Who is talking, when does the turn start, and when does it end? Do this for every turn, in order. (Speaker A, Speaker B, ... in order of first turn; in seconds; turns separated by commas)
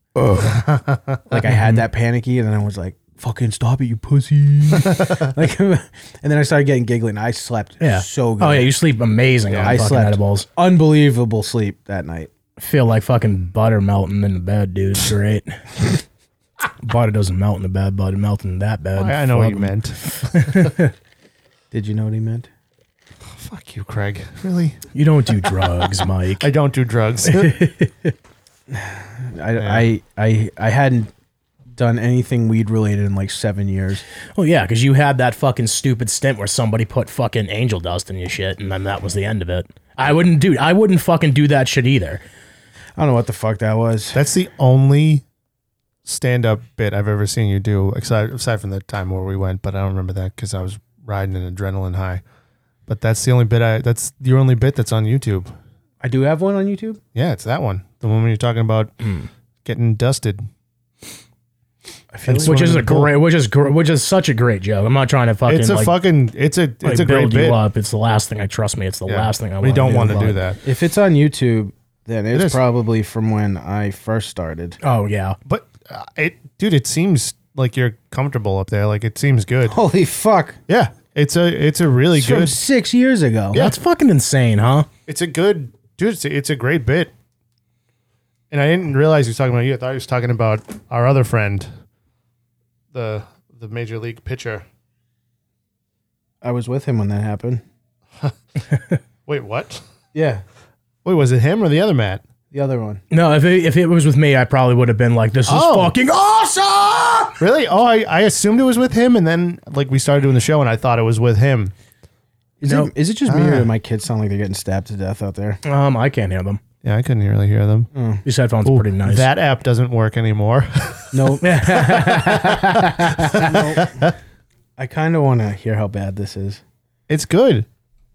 Speaker A: 0.2-0.5, Speaker B: 0.5-1.2, Speaker C: 1.3-8.7, Speaker A: 1.4-1.8, Speaker A: 7.8-10.5, Speaker B: 9.5-9.8, Speaker C: 9.6-12.3, Speaker A: 12.6-15.9, Speaker A: 16.8-19.8, Speaker B: 18.9-20.7, Speaker A: 20.3-20.9, Speaker C: 21.7-22.5, Speaker B: 23.3-24.8, Speaker A: 24.9-26.5, Speaker B: 26.4-27.6, Speaker A: 27.2-28.1, Speaker C: 28.7-31.1, Speaker B: 29.6-29.9, Speaker C: 31.7-34.0, Speaker A: 34.4-42.2, Speaker C: 43.0-44.2, Speaker B: 44.1-45.2, Speaker B: 46.0-52.2, Speaker B: 52.9-55.5, Speaker C: 56.0-57.0, Speaker B: 57.1-59.0, Speaker A: 59.0-59.3, Speaker B: 59.6-60.5, Speaker C: 62.1-62.9, Speaker B: 62.3-63.1, Speaker A: 62.4-65.9, Speaker B: 65.5-67.6, Speaker A: 66.8-70.4, Speaker B: 69.1-70.6, Speaker C: 70.6-74.8, Speaker B: 72.3-72.6, Speaker A: 74.8-75.4, Speaker B: 75.5-79.8, Speaker C: 79.7-80.6, Speaker B: 80.7-82.5, Speaker C: 82.1-83.6, Speaker A: 83.5-84.9, Speaker B: 85.1-87.1, Speaker B: 88.5-91.7, Speaker B: 92.9-94.6, Speaker C: 96.4-97.6, Speaker B: 99.2-99.8, Speaker C: 100.1-100.4, Speaker B: 101.0-102.2, Speaker C: 102.5-103.0, Speaker A: 103.1-107.4, Speaker B: 105.5-105.9, Speaker B: 107.4-111.7, Speaker C: 112.6-115.6, Speaker A: 112.6-112.9, Speaker B: 113.3-113.7, Speaker A: 115.6-116.6, Speaker B: 116.8-117.9, Speaker C: 117.9-118.2, Speaker A: 118.2-119.3, Speaker B: 118.6-121.2, Speaker C: 121.1-122.5, Speaker A: 121.4-123.6, Speaker B: 123.2-124.1, Speaker C: 123.2-124.0, Speaker C: 124.8-126.6, Speaker B: 127.1-127.7